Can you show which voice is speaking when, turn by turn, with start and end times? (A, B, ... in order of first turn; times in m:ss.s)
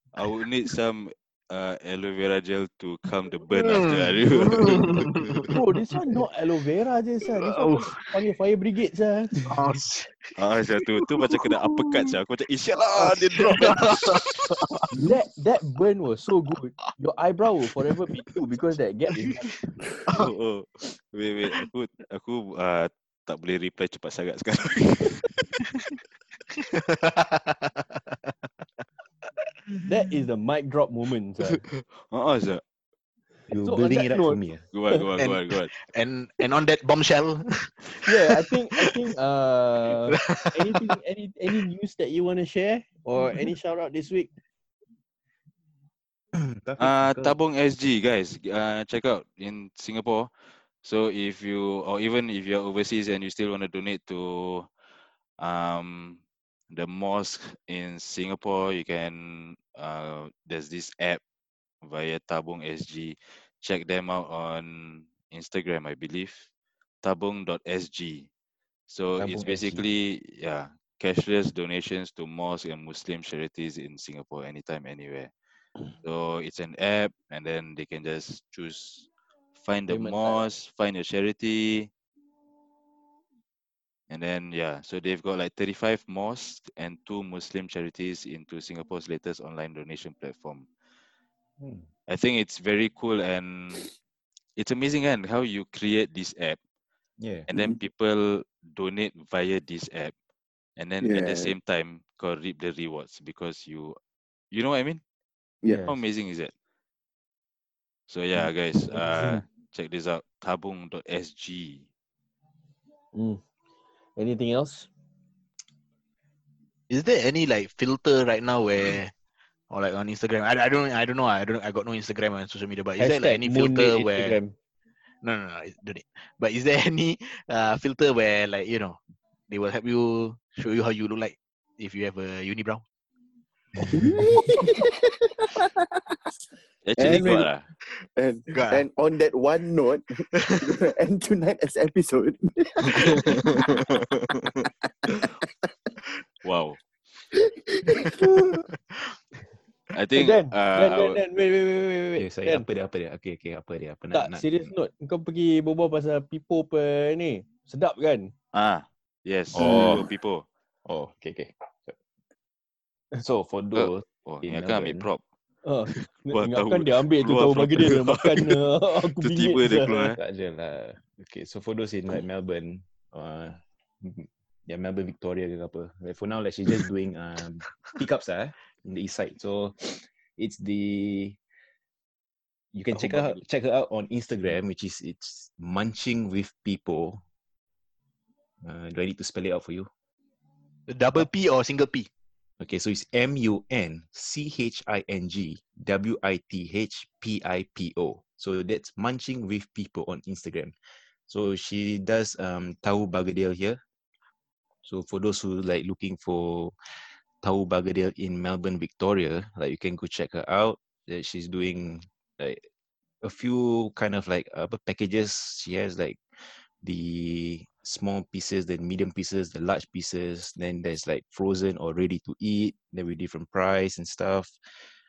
0:00.1-0:05.5 A
0:03.5-0:05.6 B
0:05.5-0:09.5 C
0:07.4-0:08.2 B
0:09.4-0:10.3 B
0:10.4-0:14.2 A
0:10.8-0:12.1 B
0:13.0-0:14.9 B
0:14.9-0:19.5 C
0:19.2-0:20.3 B
0:20.1-0:25.5 A
0:26.5-0:28.3 B
0:29.8-0:31.6 C
0:31.7-0:32.6 A
0:33.5-0:34.6 D
0:33.6-0:34.4 C
0:34.7-0:35.7 A
0:35.2-0:38.9 B
0:38.0-0:44.3 C
0:40.1-0:40.8 B
0:46.3-0:47.4 D
0:46.8-0:50.3 A
0:50.8-0:54.7 A
0:55.4-0:56.2 A
0:56.7-1:01.2 A
1:01.8-1:06.5 A
1:07.0-1:08.3 A
1:08.9-1:15.3 A
1:09.2-1:09.8 D
1:15.9-1:21.9 A
1:19.9-1:20.5 C
1:24.1-1:30.7 A
1:31.6-1:31.9 D
1:32.1-1:33.9 A
1:34.6-1:36.6 A
1:37.2-1:37.5 D
1:37.5-1:40.1 A
1:37.5-1:37.8 E
1:40.8-1:44.0 A
1:41.0-1:41.5 E
1:44.5-1:45.0 A
1:45.7-1:46.0 D
1:45.9-1:46.5 A
1:48.1-1:51.8 A
1:48.9-1:49.4 C
1:53.1-1:53.4 C
1:54.2-1:54.9 C
1:56.9-1:59.1 B
1:59.7-2:04.4 B
2:03.0-2:04.5 C
2:05.2-2:12.8 B
2:13.8-2:14.3 D
2:13.9-2:16.2 E
2:16.8-2:17.7 A
2:17.0-2:17.5 E
2:18.2-2:23.7 E
2:18.5-2:18.9 B
2:20.3-2:20.7 B
2:23.2-2:24.6 A
2:26.4-2:26.8 A
2:27.3-2:28.6 E
2:29.9-2:31.2 A
2:30.2-2:32.7 C
2:32.2-2:34.7 D
2:34.1-2:38.3 C
2:38.5-2:40.4 A
2:39.5-2:40.1 D
2:39.6-2:40.0 C
2:40.9-2:42.0 D
2:43.2-2:45.1 D
2:43.8-2:45.2 A
2:45.6-2:50.2 C
2:45.9-2:50.2 A
2:50.2-3:01.4 D
3:02.7-3:07.2 D
3:03.0-3:03.3 C
3:08.6-3:09.9 D
3:10.9-3:12.1 B
3:12.6-3:20.8 D
3:21.3-3:23.8 D
3:24.8-3:26.8 D
3:27.4-3:32.6 D
3:33.2-3:36.2 D
3:36.8-3:44.6 D